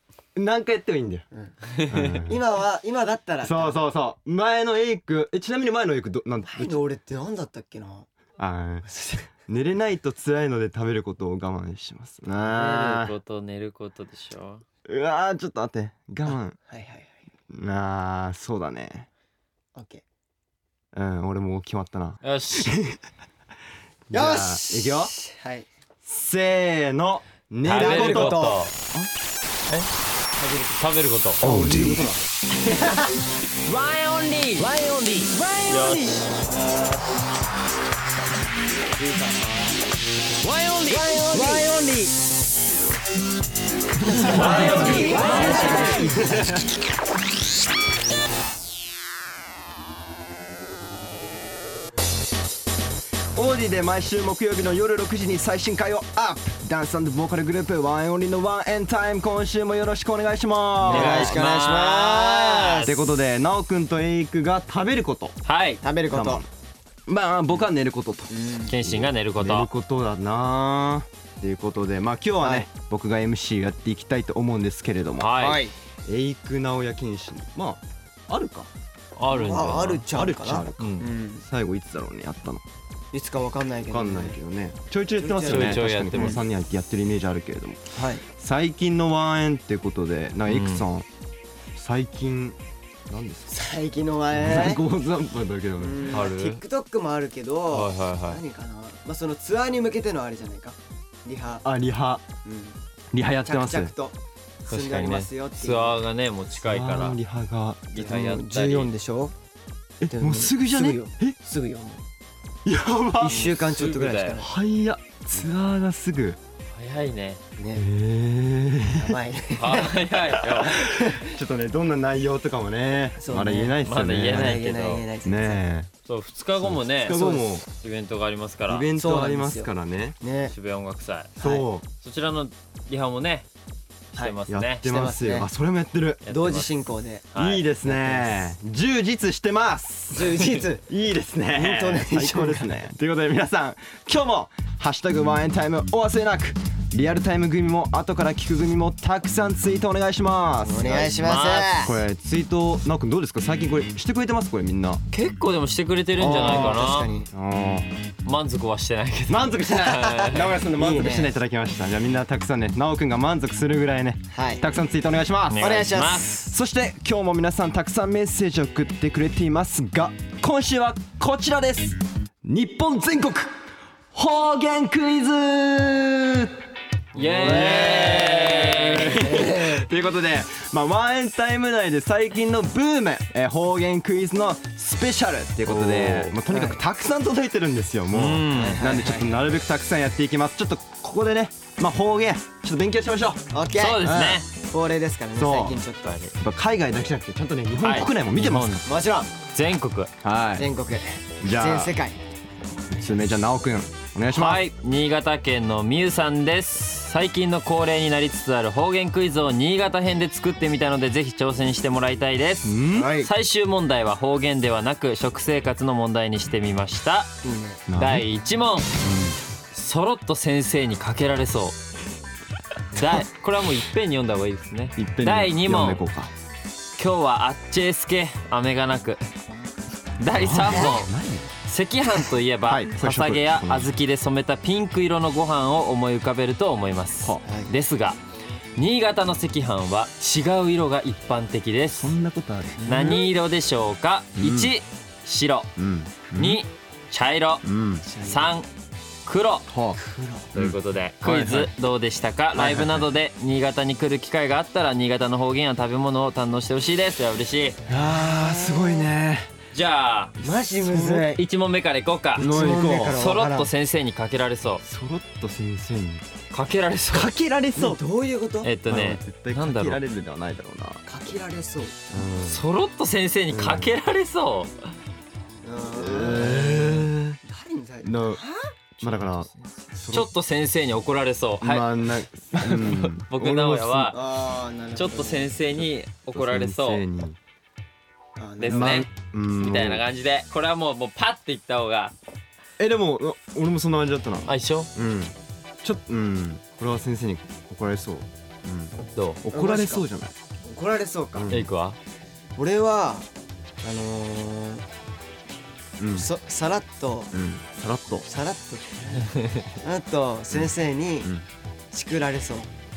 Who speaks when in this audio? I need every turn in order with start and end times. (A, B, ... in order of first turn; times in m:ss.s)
0:00.4-0:01.2 A
0:01.3-0:03.8 B
0:01.9-0:02.4 A
0:03.4-0:06.8 A
0:06.5-0:08.1 B
0:08.4-0:08.9 A
0:08.9-0:09.3 B
0:09.4-0:13.1 A
0:12.4-0:14.6 C
0:14.8-0:16.6 A
0:16.3-0:17.2 B
0:17.5-0:19.1 A
0:19.7-0:20.0 B
0:20.9-0:23.0 A
0:22.2-0:22.8 C
0:24.1-0:25.2 A
0:24.1-0:25.7 B
0:26.0-0:29.1 A
0:27.6-0:28.7 C
0:27.7-0:28.6 B
0:30.4-0:30.9 B
0:30.8-0:31.4 C
0:31.4-0:32.2 A
0:31.4-0:33.2 B
0:33.6-0:34.7 C
0:34.6-0:36.3 B
0:35.7-0:37.0 C
0:38.9-0:39.8 B
0:40.4-0:41.8 C
0:40.8-0:42.2 B
0:44.0-0:46.5 B
0:44.0-0:46.6 A
0:44.1-0:46.1 C
0:53.3-1:01.4 A
1:00.8-1:02.9 B
1:00.8-1:03.1 C
1:02.8-1:05.4 A
1:05.4-1:05.8 C
1:05.8-1:06.4 B
1:06.1-1:06.5 A
1:07.1-1:15.3 A
1:08.3-1:08.8 B
1:08.7-1:09.7 C
1:12.4-1:12.7 B
1:15.2-1:15.7 C
1:15.3-1:15.7 B
1:16.1-1:18.7 A
1:19.2-1:20.0 C
1:19.3-1:21.4 B
1:20.1-1:22.6 A
1:20.8-1:21.1 C
1:23.1-1:24.4 B
1:23.9-1:31.1 A
1:25.2-1:26.4 B
1:25.5-1:26.4 C
1:27.9-1:28.2 B
1:30.5-1:30.8 C
1:31.8-1:32.6 A
1:33.1-1:33.5 A
1:33.5-1:34.8 B
1:34.3-1:36.1 A
1:35.8-1:41.6 B
1:36.1-1:36.6 C
1:37.7-1:38.4 C
1:41.6-1:42.3 A
1:42.4-1:42.8 B
1:43.1-1:43.9 A
1:43.4-1:46.0 B
1:44.7-1:47.2 C
1:46.6-1:47.9 A
1:47.9-1:49.3 B
1:48.0-1:48.9 C
1:50.0-1:51.4 A
1:50.1-1:52.0 B
1:52.6-1:53.4 A
1:53.2-1:54.5 B
1:53.2-1:54.4 C
1:54.4-1:56.4 A
1:56.7-1:57.4 C
1:57.6-1:57.8 B
1:57.8-1:59.2 A
1:58.9-2:01.3 B
1:59.5-2:00.8 C
2:00.7-2:04.6 A
2:03.2-2:05.6 B
2:03.8-2:05.0 C
2:05.2-2:05.9 A
2:06.1-2:08.9 C
2:06.5-2:07.7 A
2:07.1-2:07.6 B
2:08.7-2:10.2 A
2:08.9-2:10.5 B
2:10.5-2:11.4 C
2:11.4-2:11.7 B
2:11.4-2:11.8 A
2:11.9-2:13.5 C
2:14.1-2:14.8 C
2:14.2-2:15.5 B
2:14.5-2:16.2 A
2:16.2-2:16.8 C
2:16.3-2:18.5 B
2:17.3-2:17.6 C
2:17.4-2:35.0 A
2:20.1-2:20.8 B
2:21.5-2:22.8 B
2:30.6-2:32.0 B
2:31.1-2:31.8 C
2:35.1-2:37.1 C
2:36.2-2:36.8 A
2:36.2-2:37.3 B
2:37.3-2:37.9 A
2:38.2-2:40.5 C
2:39.3-2:45.6 A
2:40.0-2:41.3 B
2:44.3-2:44.6 B
2:45.5-2:46.5 C
2:45.6-2:46.4 B
2:46.4-2:53.5 A
2:54.1-2:56.5 A
2:57.2-2:59.5 C
2:57.2-2:59.8 B
2:57.2-3:13.5 A
3:05.7-3:06.3 C
3:06.4-3:06.8 B
3:08.1-3:08.8 C
3:08.5-3:09.3 B
3:13.5-3:16.2 B
3:13.8-3:14.5 C
3:14.0-3:14.4 A
3:15.4-3:15.8 A
3:16.0-3:16.3 C
3:16.4-3:18.8 A
3:17.8-3:18.8 C
3:18.8-3:19.3 B
3:19.5-3:20.1 C
3:20.2-3:20.7 A
3:20.6-3:22.2 B
3:21.4-3:21.9 A
3:22.9-3:24.6 A
3:24.3-3:37.3 C
3:32.6-3:33.1 A
3:32.9-3:33.3 B
3:37.4-3:37.8 B
3:37.9-3:38.3 A
3:38.0-3:39.0 C
3:39.0-3:39.4 A
3:39.7-3:41.8 C
3:43.0-3:46.0 C
3:45.0-3:46.3 A
3:47.0-3:49.2 C
3:50.2-3:51.1 C
3:50.3-3:51.5 A
3:51.6-3:58.2 C
3:52.6-3:54.0 A
3:57.4-3:57.7 B
3:58.8-4:02.1 C
4:01.9-4:03.2 A
4:02.8-4:03.2 B
4:02.9-4:05.7 C
4:04.4-4:04.7 A
4:05.8-4:06.6 A
4:06.4-4:07.6 C
4:07.6-4:08.1 A
4:08.1-4:08.5 B
4:08.2-4:08.7 C
4:09.2-4:09.7 C
4:09.7-4:10.0 A
4:10.0-4:10.5 B
4:10.5-4:11.7 A
4:10.5-4:17.8 C
4:12.6-4:13.0 A
4:17.9-4:19.5 A
4:17.9-4:19.1 B
4:19.7-4:20.3 C
4:20.4-4:21.3 A
4:20.4-4:21.5 B
4:21.3-4:22.5 C
4:22.4-4:23.2 A
4:22.4-4:23.7 B
4:23.1-4:24.8 C
4:24.8-4:26.2 A
4:26.5-4:27.3 C
4:27.1-4:28.0 A
4:27.8-4:28.7 B
4:28.6-4:30.0 C
4:28.9-4:31.1 A
4:31.1-4:32.0 B
4:32.1-4:32.6 A
4:32.4-4:34.7 C
4:33.5-4:33.9 A
4:35.6-4:39.2 B
4:35.9-4:37.4 A
4:36.5-4:36.9 C
4:38.0-4:38.4 A
4:39.0-4:40.3 A
4:40.1-4:44.2 C
4:41.6-4:44.1 A
4:44.1-4:45.6 B
4:45.0-4:47.0 C
4:46.3-4:47.4 A
4:48.4-4:49.1 B
4:48.6-4:52.1 C
4:48.7-4:50.0 A
4:52.8-5:00.4 A
4:54.5-4:54.9 C
4:59.1-4:59.4 C
4:59.5-5:00.0 B
5:00.6-5:01.5 B
5:01.4-5:01.7 A
5:01.5-5:02.0 C
5:02.6-5:03.3 B
5:03.8-5:04.9 B
5:06.0-5:06.3 A
5:06.1-5:07.3 B
5:07.3-5:08.3 A
5:08.2-5:09.3 B
5:09.2-5:09.6 C
5:09.8-5:11.3 B
5:11.9-5:12.7 B